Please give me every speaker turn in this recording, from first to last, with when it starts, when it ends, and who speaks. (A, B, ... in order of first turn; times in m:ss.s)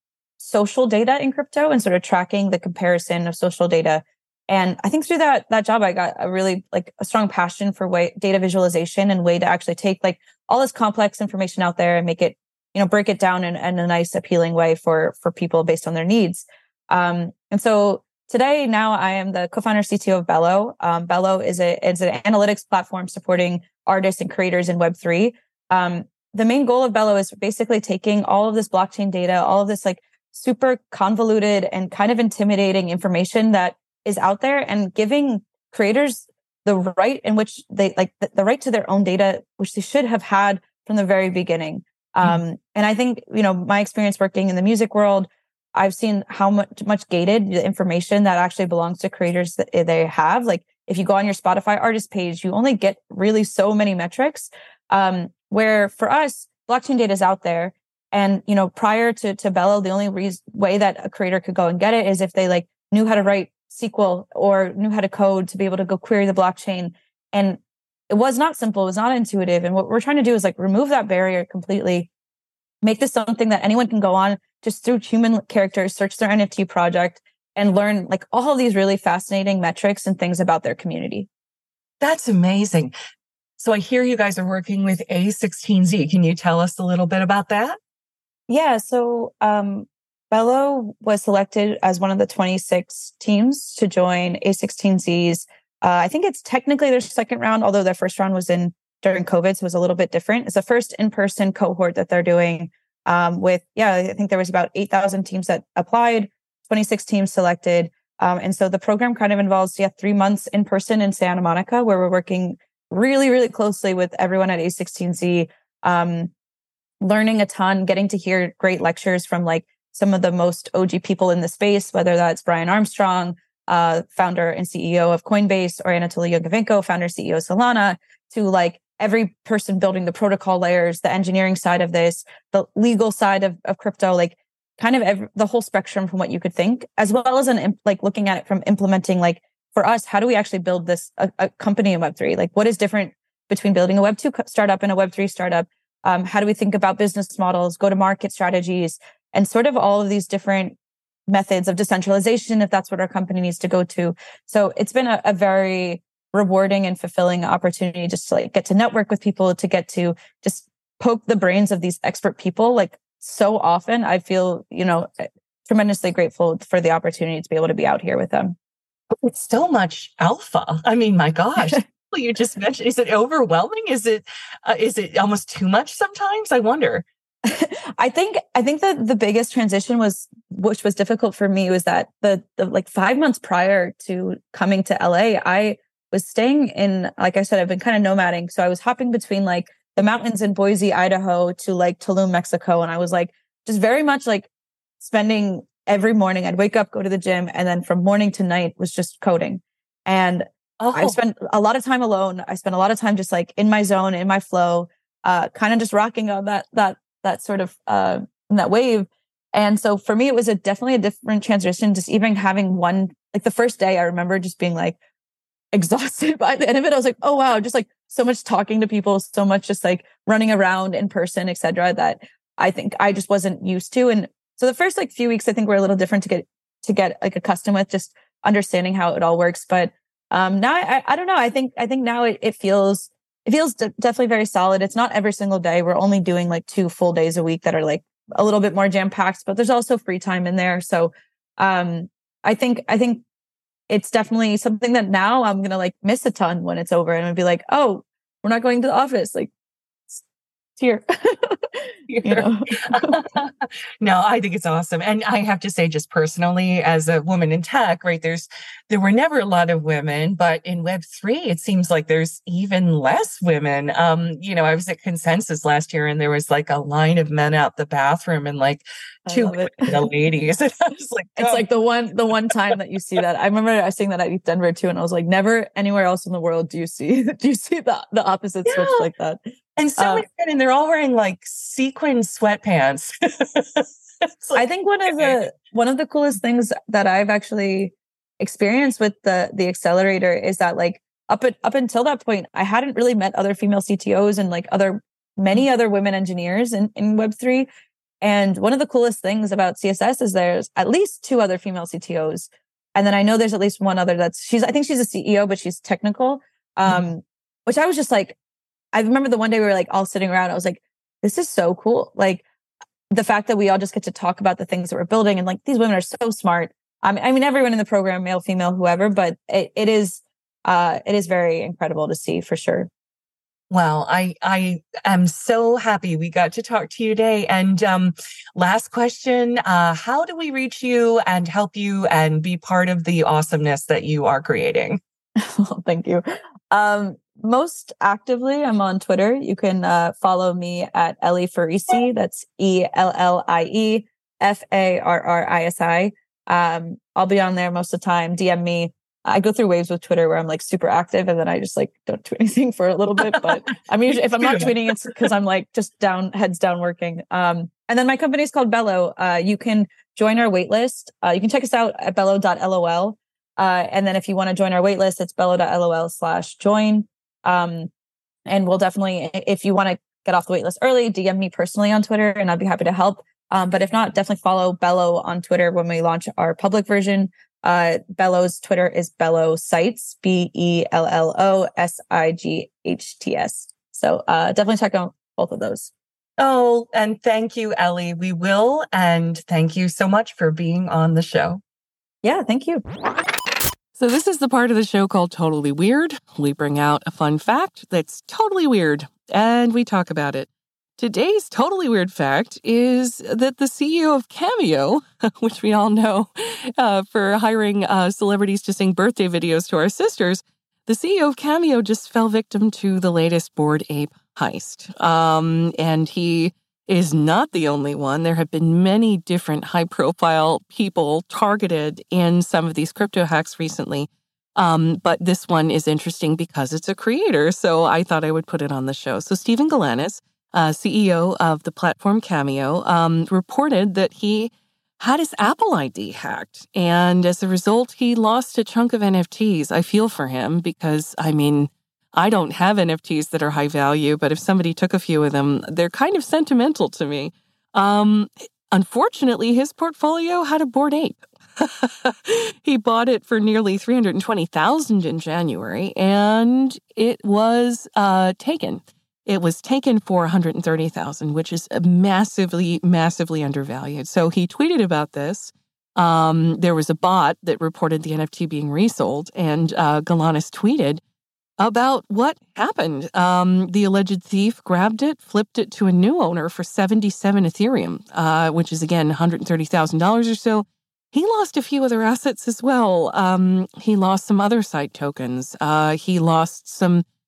0:00.4-1:12.1 A
1:12.8-1:21.3 A
1:22.0-1:22.9 B
1:23.6-1:27.8 B
1:28.5-1:56.3 A
1:57.0-2:30.8 A
2:31.3-2:48.6 A
2:49.2-2:57.0 B
2:57.4-3:14.5 A
3:15.0-3:35.0 A
3:20.8-3:21.2 B
3:35.7-4:03.2 A
4:03.9-4:09.5 A
4:10.8-4:13.2 A
4:12.1-4:31.7 B
4:29.3-4:29.9 A
4:31.4-4:39.4 A
4:38.6-4:39.1 B
4:39.8-4:45.4 B
4:40.0-4:40.2 A
4:44.6-4:57.7 A
4:58.2-5:08.4 A
5:08.9-5:12.4 A
5:13.1-5:22.9 A
5:23.7-5:35.0 B
5:35.4-6:07.9 A
5:54.4-5:54.7 B
6:08.5-6:25.9 A
6:26.4-6:31.6 B
6:32.2-6:32.8 A
6:33.9-7:51.0 B
7:51.6-8:07.0 B